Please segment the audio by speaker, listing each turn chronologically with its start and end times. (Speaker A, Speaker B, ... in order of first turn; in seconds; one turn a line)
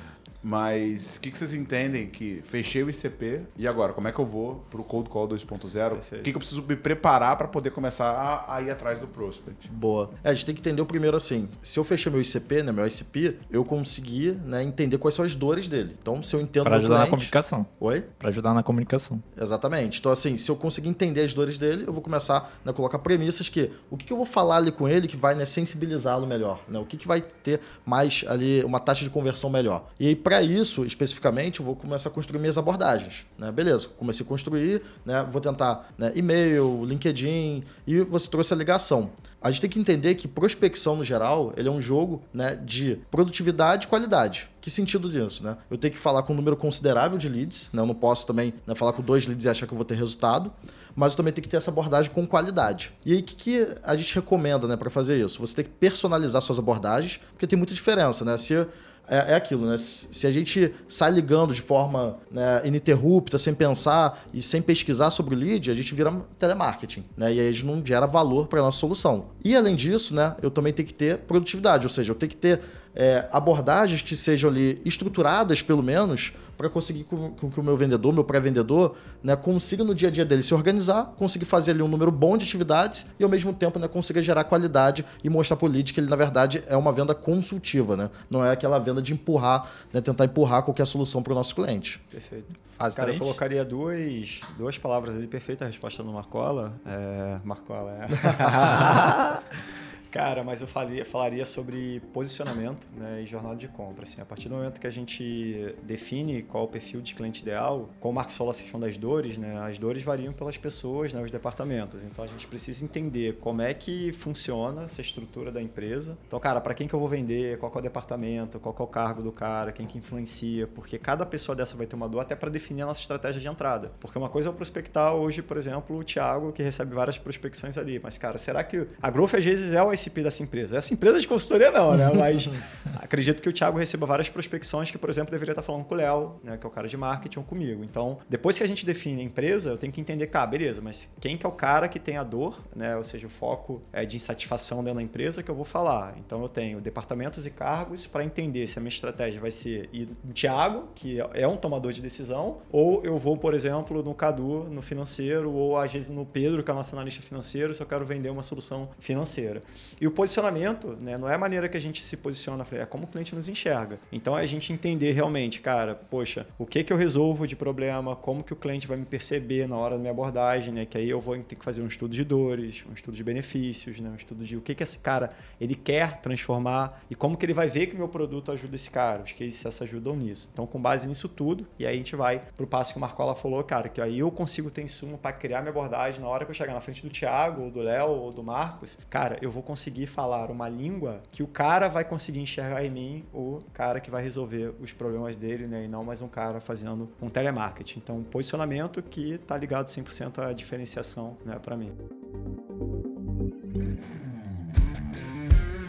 Speaker A: 0.4-9.7
Speaker B: 5.9-6.3
Speaker C: 9.7-18.1
Speaker D: 16.6-19.2
Speaker C: 19.3-92.0
Speaker B: 92.1-99.4
Speaker D: 92.8-93.4
Speaker B: 100.1-201.9